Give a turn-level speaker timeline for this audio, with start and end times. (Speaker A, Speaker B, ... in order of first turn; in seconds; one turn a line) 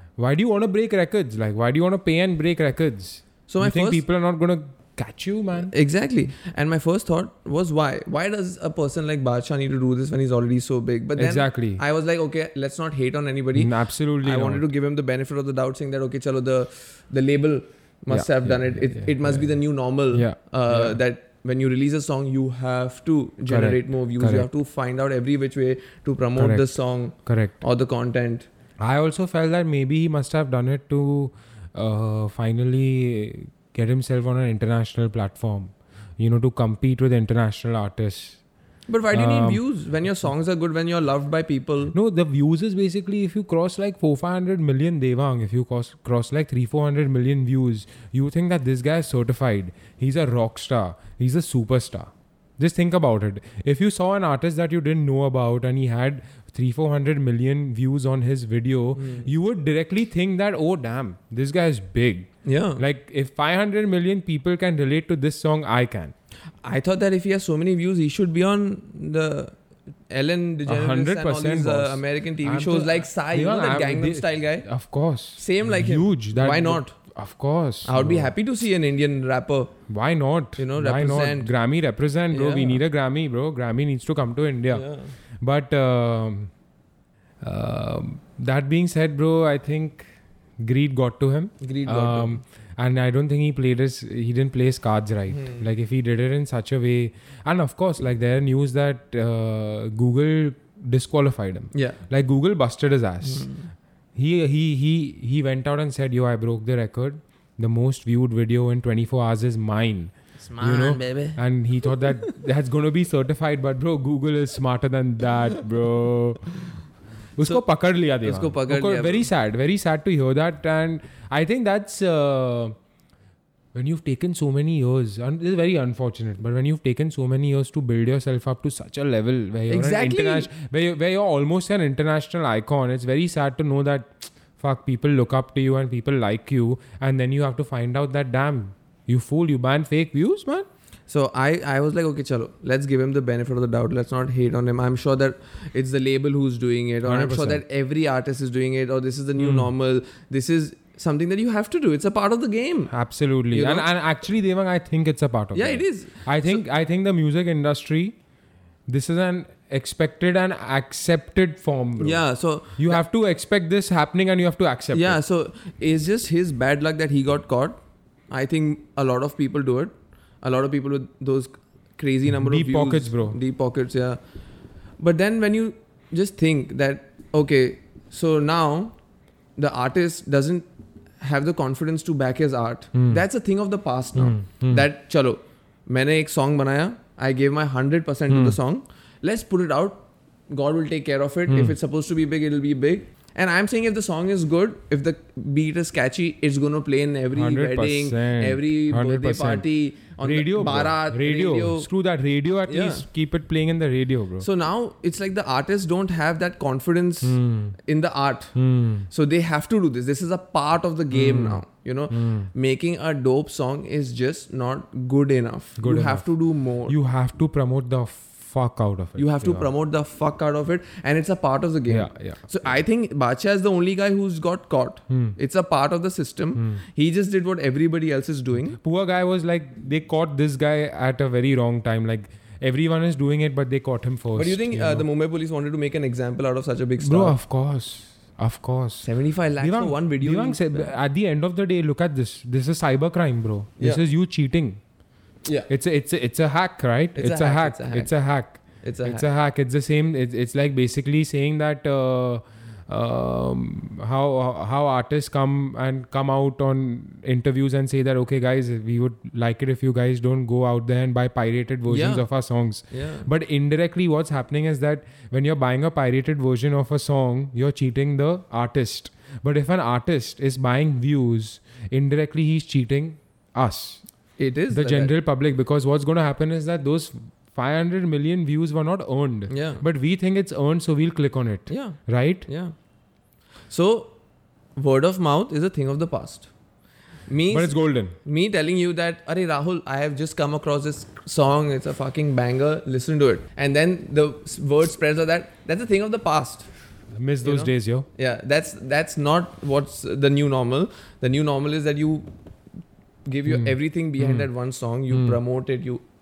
Speaker A: 0.2-5.7
Speaker B: 3.5-4.0
Speaker B: 5.6-28.5
Speaker A: 11.2-11.8
Speaker A: 13.5-14.6
Speaker A: 18.1-19.5
Speaker A: 20.1-21.0
Speaker A: 23.5-24.5
Speaker A: 26.4-26.7
Speaker A: 27.2-27.6
Speaker A: 28.8-38.4
Speaker B: 38.9-41.9
Speaker A: 39.1-39.6
Speaker A: 41.9-66.1
Speaker B: 59.0-59.3
Speaker B: 62.4-62.8
Speaker B: 66.6-69.5
Speaker B: 70.1-74.7
Speaker A: 70.7-78.3
Speaker B: 75.4-77.0
Speaker B: 77.8-79.7
Speaker A: 79.9-84.9
Speaker B: 80.6-81.5
Speaker B: 82.3-82.8
Speaker B: 84.7-85.1
Speaker A: 85.4-86.5
Speaker A: 87.4-90.0
Speaker A: 90.6-103.5
Speaker B: 91.6-92.4
Speaker B: 95.3-95.6
Speaker B: 101.7-102.0
Speaker B: 103.2-103.7
Speaker A: 104.1-116.6
Speaker B: 110.4-111.4
Speaker A: 117.4-122.8
Speaker B: 118.2-119.3
Speaker A: 123.7-140.7
Speaker B: 129.7-130.5
Speaker B: 141.1-152.9
Speaker A: 147.0-147.6
Speaker A: 149.4-149.7
Speaker A: 152.9-158.2
Speaker B: 153.5-153.9
Speaker B: 155.5-156.6
Speaker A: 158.9-162.2
Speaker B: 162.0-163.0
Speaker A: 162.8-165.2
Speaker B: 164.9-167.8
Speaker B: 168.3-174.2
Speaker A: 172.3-173.4
Speaker B: 175.0-178.9
Speaker B: 179.6-180.7
Speaker B: 181.2-201.9
Speaker A: 182.9-183.2
Speaker A: 184.2-184.9
Speaker A: 188.3-188.6
Speaker A: 191.5-191.8
Speaker A: 197.3-199.7
Speaker A: 200.2-204.5
Speaker B: 202.7-203.1
Speaker B: 204.4-208.6
Speaker A: 207.2-207.8
Speaker A: 208.5-209.1
Speaker B: 209.1-216.9
Speaker A: 211.1-212.5
Speaker A: 215.8-216.3
Speaker A: 216.9-219.7
Speaker B: 219.2-228.8
Speaker A: 221.9-222.4
Speaker A: 225.1-225.3
Speaker A: 226.6-226.8
Speaker A: 228.8-235.0
Speaker B: 234.3-237.4
Speaker A: 237.0-239.1
Speaker B: 239.0-240.9
Speaker A: 239.6-244.8
Speaker B: 245.4-245.7
Speaker A: 245.7-274.0
Speaker B: 247.1-248.1
Speaker B: 248.8-249.3
Speaker B: 261.9-262.3
Speaker B: 262.9-263.3
Speaker B: 274.4-275.1
Speaker A: 274.7-282.5
Speaker B: 279.5-279.8
Speaker B: 281.7-282.7
Speaker B: 283.7-284.1
Speaker B: 284.8-286.5
Speaker B: 287.3-296.7
Speaker A: 287.5-288.1
Speaker A: 297.1-298.1
Speaker B: 297.4-302.3
Speaker B: 303.3-306.0
Speaker A: 303.5-304.5
Speaker A: 305.1-305.4